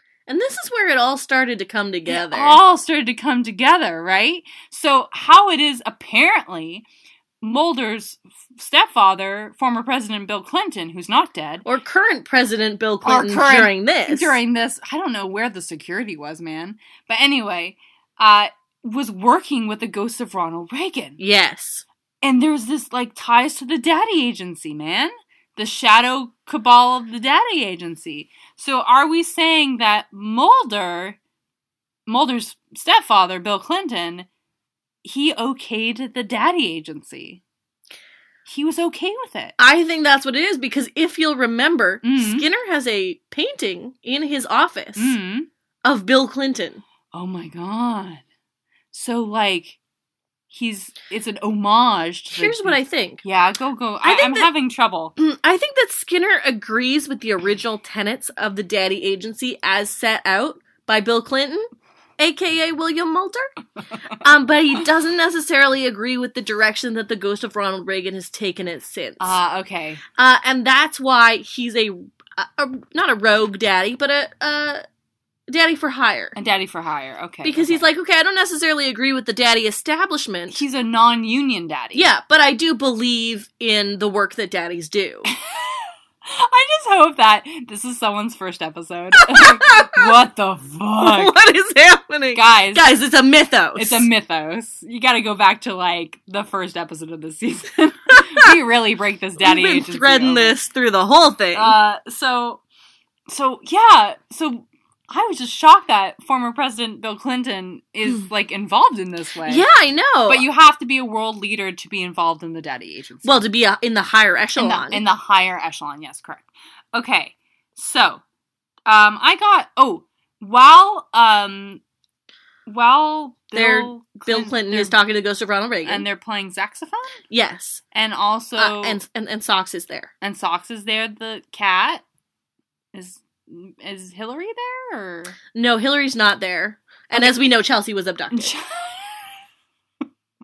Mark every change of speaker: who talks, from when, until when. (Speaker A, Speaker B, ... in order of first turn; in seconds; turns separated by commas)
Speaker A: 0.3-2.6, Speaker B: 2.1-6.9, Speaker B: 7.4-11.6, Speaker A: 11.6-14.4, Speaker B: 13.0-21.2, Speaker A: 21.2-21.9, Speaker B: 22.2-31.2, Speaker B: 32.1-34.3, Speaker B: 35.0-37.4, Speaker B: 38.5-39.6, Speaker A: 39.6-45.1, Speaker B: 42.0-42.5, Speaker B: 45.0-45.5, Speaker A: 45.8-46.8, Speaker B: 47.1-48.2, Speaker B: 48.9-49.8, Speaker B: 50.5-55.1, Speaker A: 52.3-53.2, Speaker A: 54.0-54.5, Speaker A: 55.2-61.7, Speaker A: 62.2-63.5, Speaker A: 64.2-69.4, Speaker B: 69.2-70.0, Speaker A: 70.2-74.8, Speaker A: 75.5-76.4, Speaker B: 76.3-77.9, Speaker A: 77.4-80.6, Speaker B: 80.5-82.1, Speaker A: 81.9-85.3, Speaker B: 85.3-91.3, Speaker A: 89.3-90.1, Speaker A: 91.1-94.1, Speaker B: 92.3-92.9, Speaker B: 93.8-100.6, Speaker A: 99.4-101.8, Speaker B: 101.5-102.6, Speaker B: 103.3-109.6, Speaker A: 109.5-110.4, Speaker B: 110.3-113.4, Speaker A: 113.2-115.0, Speaker B: 114.6-118.2, Speaker B: 118.9-121.8, Speaker B: 122.7-124.9, Speaker A: 123.5-126.0, Speaker B: 125.8-127.2, Speaker A: 127.3-127.8, Speaker B: 127.9-129.0, Speaker A: 128.6-130.1, Speaker B: 130.2-132.0, Speaker B: 132.9-135.4, Speaker A: 135.5-138.5, Speaker B: 138.3-139.3